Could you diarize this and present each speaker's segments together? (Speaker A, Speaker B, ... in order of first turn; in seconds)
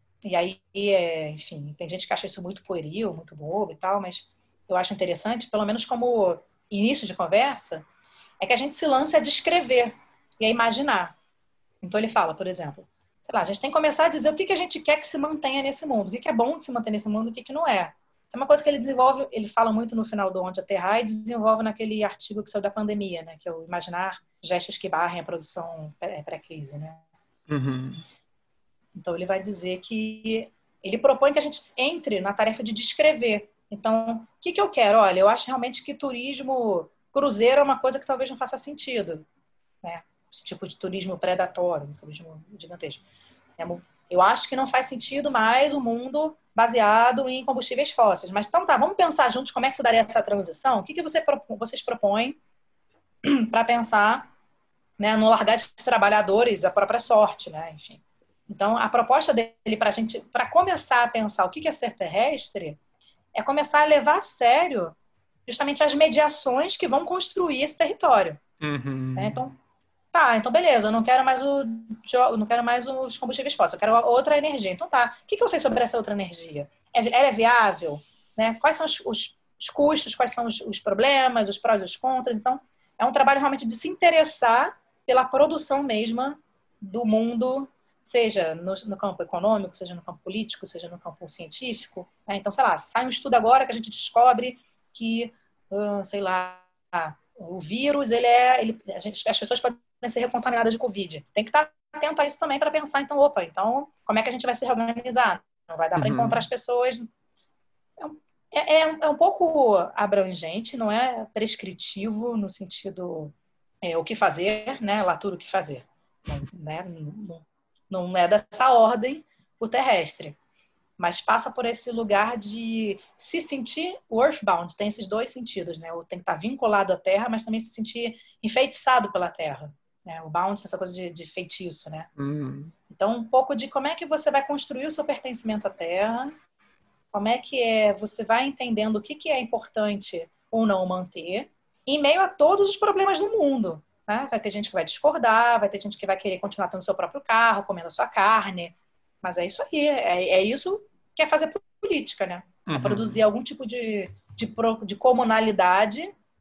Speaker A: 0.2-7.9, 8.4-11.2, 11.8-27.0, 28.9-39.2, 39.8-43.0, 43.6-52.4, 53.2-54.3, 55.0-62.8, 63.3-65.0, 65.5-68.4, 69.2-69.6, 70.1-107.1, 108.0-120.4, 121.0-132.1, 132.9-136.3, 137.1-156.1
Speaker B: 27.5-28.0, 68.6-69.4, 106.0-106.5, 132.2-132.7, 152.7-153.2